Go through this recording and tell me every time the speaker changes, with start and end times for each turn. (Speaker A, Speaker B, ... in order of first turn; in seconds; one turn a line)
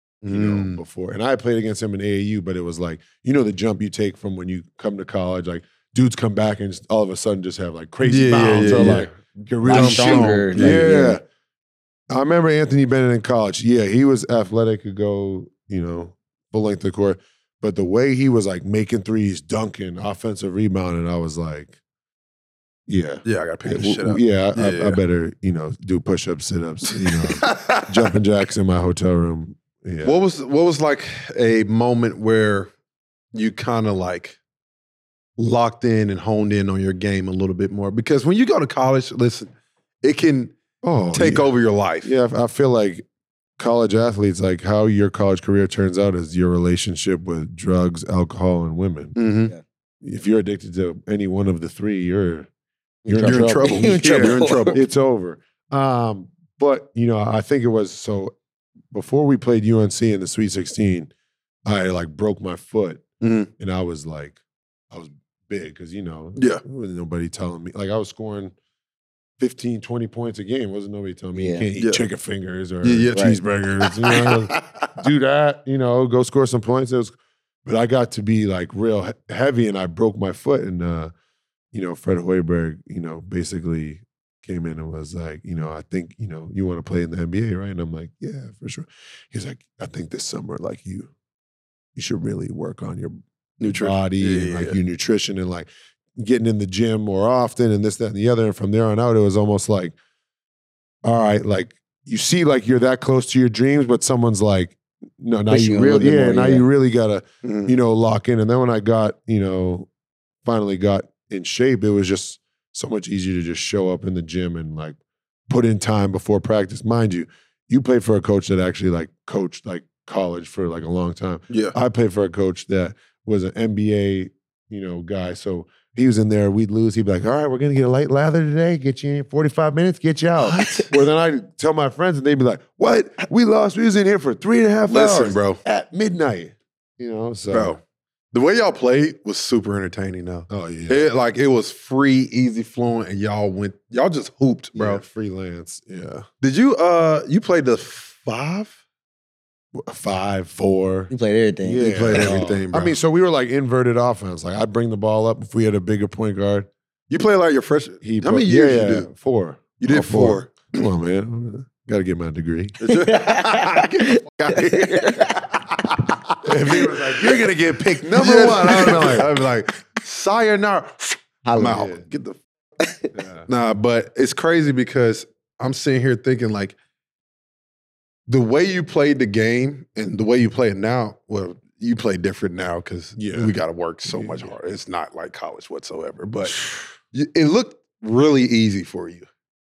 Speaker A: 0.2-0.8
Speaker B: 0.2-11.2
Speaker A: 8.0-10.9
Speaker C: 9.6-11.2
Speaker B: 12.1-21.8
Speaker B: 22.9-30.1
Speaker A: 23.2-25.0
Speaker A: 26.9-28.1
Speaker A: 30.0-32.7
Speaker A: 33.3-34.4
Speaker A: 35.4-40.5
Speaker B: 40.8-41.5
Speaker A: 41.1-42.1
Speaker B: 42.0-43.0
Speaker B: 43.6-49.1
Speaker A: 49.1-49.5
Speaker B: 50.0-52.5
Speaker B: 53.0-58.3
Speaker A: 53.1-54.8
Speaker C: 53.1-54.8
Speaker B: 58.9-61.1
Speaker B: 61.6-63.0
Speaker A: 63.2-63.5
Speaker B: 63.6-64.4
Speaker B: 64.9-68.5
Speaker A: 66.3-66.6
Speaker B: 69.4-77.1
Speaker C: 71.3-71.6
Speaker A: 72.8-75.0
Speaker B: 77.6-81.1
Speaker B: 81.7-91.1
Speaker B: 91.9-99.9
Speaker A: 93.6-94.8
Speaker B: 101.0-109.9
Speaker C: 105.5-106.6
Speaker A: 107.4-107.7
Speaker B: 110.4-115.0
Speaker B: 115.5-137.8
Speaker A: 121.5-121.8
Speaker A: 130.4-130.9
Speaker A: 134.9-135.6
Speaker A: 137.5-137.8
Speaker A: 138.3-145.0
Speaker B: 140.5-141.1
Speaker B: 144.7-146.2
Speaker A: 146.4-148.8
Speaker B: 149.7-151.1
Speaker C: 151.1-151.8
Speaker B: 151.6-156.7
Speaker A: 151.8-152.9
Speaker A: 157.1-159.1
Speaker B: 158.0-162.8
Speaker A: 159.8-160.8
Speaker A: 162.8-165.4
Speaker C: 163.1-165.2
Speaker B: 166.4-169.3
Speaker A: 168.1-172.4
Speaker C: 171.4-171.9
Speaker B: 171.6-172.0
Speaker B: 173.1-173.5
Speaker A: 173.5-176.8
Speaker A: 178.3-189.2
Speaker B: 183.2-183.5
Speaker B: 184.1-184.5